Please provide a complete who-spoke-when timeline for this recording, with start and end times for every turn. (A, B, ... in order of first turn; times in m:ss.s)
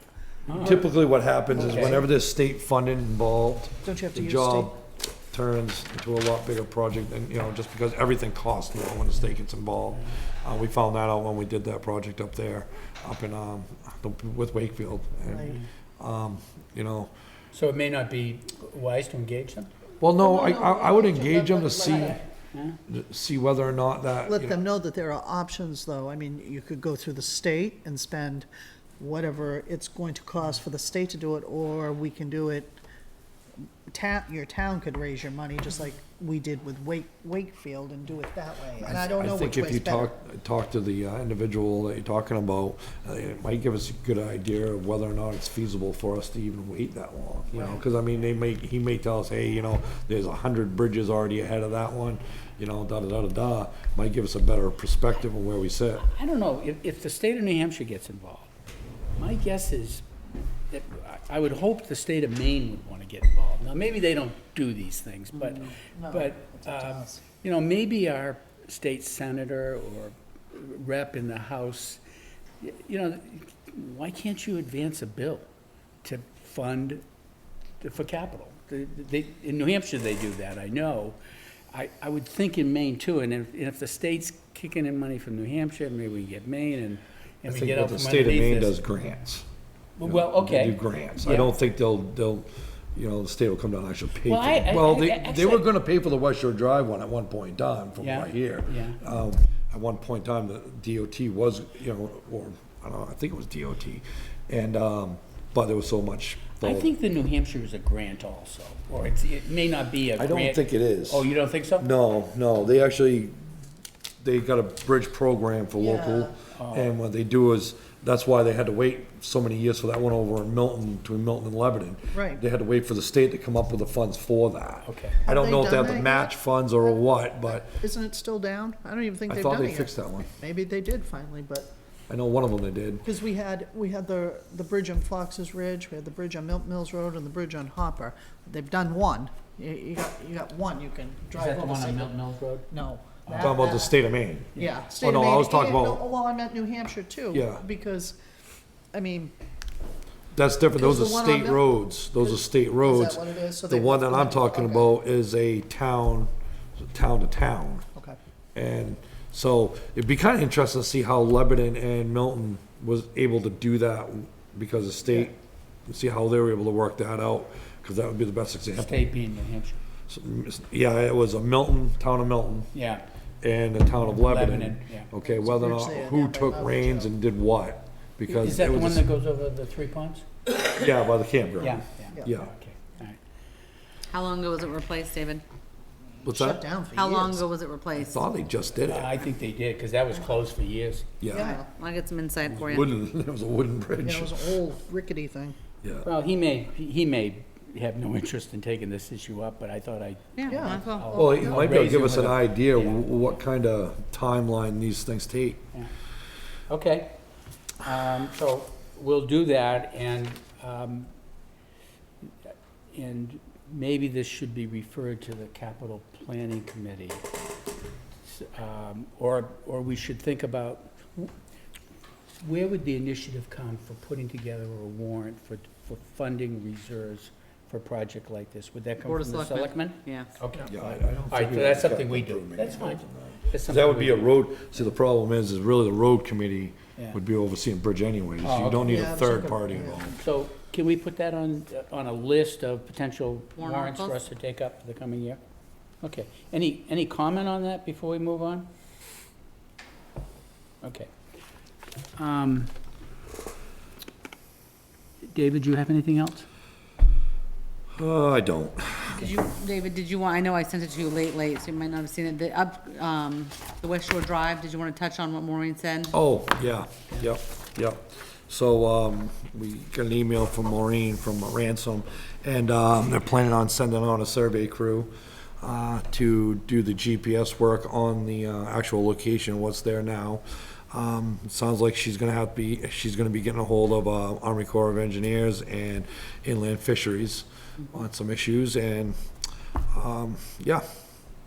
0:00.5-0:00.8 A
0:00.5-0:17.1 B
0:01.5-0:02.0 C
0:01.6-0:02.0 A
0:03.8-0:04.7 C
0:15.3-0:15.6 C
0:15.4-0:15.7 A
0:17.5-0:19.7 A
0:20.0-0:22.2 B
0:20.2-0:22.2 C
0:22.5-0:22.8 A
0:22.9-0:24.6 B
0:24.2-0:28.5 C
0:29.0-0:32.8 C
0:33.9-0:40.2 C
0:38.8-0:56.1 B
0:47.5-0:47.8 C
0:56.0-0:58.5 A
0:59.2-1:00.0 A
1:00.7-1:12.0 A
1:05.4-1:07.2 C
1:12.6-1:15.5 A
1:16.0-1:17.0 A
1:17.8-1:21.2 A
1:21.7-1:28.8 A
1:27.5-1:29.4 B
1:30.0-1:31.6 A
1:30.0-1:46.9 B
1:34.2-1:35.7 A
1:38.0-1:39.0 A
1:46.6-1:51.9 A
1:50.2-1:51.3 B
1:51.8-1:53.4 B
1:54.2-2:07.7 B
1:55.8-1:56.3 C
1:56.6-1:56.9 A
2:02.1-2:02.4 C
2:04.8-2:05.2 A
2:05.3-2:11.7 C
2:09.3-2:10.3 B
2:12.1-2:13.0 B
2:13.0-2:22.1 C
2:21.3-2:22.7 A
2:22.7-2:24.0 C
2:23.3-2:23.5 A
2:23.3-2:26.0 B
2:24.6-2:28.2 C
2:27.3-2:27.6 B
2:28.9-2:29.3 C
2:30.3-2:37.8 B
2:30.7-2:34.9 C
2:38.6-2:49.1 B
2:48.8-2:49.8 A
2:50.1-2:52.7 B
2:52.7-2:53.0 A
2:53.4-2:59.1 B
2:54.0-2:55.1 A
2:55.2-2:57.1 C
2:58.3-3:00.3 A
3:00.5-3:02.5 B
3:01.6-3:03.2 A
3:04.1-3:05.4 D
3:06.2-3:07.5 C
3:06.2-3:06.6 B
3:06.9-3:08.4 D
3:08.0-3:09.2 B
3:08.8-3:11.1 A
3:11.2-3:11.6 B
3:11.3-3:11.7 C
3:11.4-3:12.9 D
3:12.5-3:14.6 B
3:14.0-3:15.6 C
3:15.8-3:16.1 B
3:16.0-3:23.0 A
3:20.4-3:21.7 D
3:20.5-3:20.8 C
3:21.1-3:25.6 B
3:26.7-3:27.2 A
3:27.8-3:31.1 A
3:32.2-3:37.3 A
3:38.2-3:41.3 A
3:42.4-3:54.4 A
3:49.1-3:50.4 D
3:50.7-4:00.2 B
3:58.4-3:59.1 A
3:58.8-4:00.2 C
4:00.2-4:05.4 A
4:03.6-4:04.2 D
4:06.0-4:08.7 A
4:10.8-4:11.1 A
4:12.2-4:12.7 A
4:15.2-4:16.5 A
4:18.0-4:19.3 B
4:19.1-4:26.2 D
4:26.1-4:35.1 B
4:35.6-4:49.2 B
4:49.9-4:50.8 B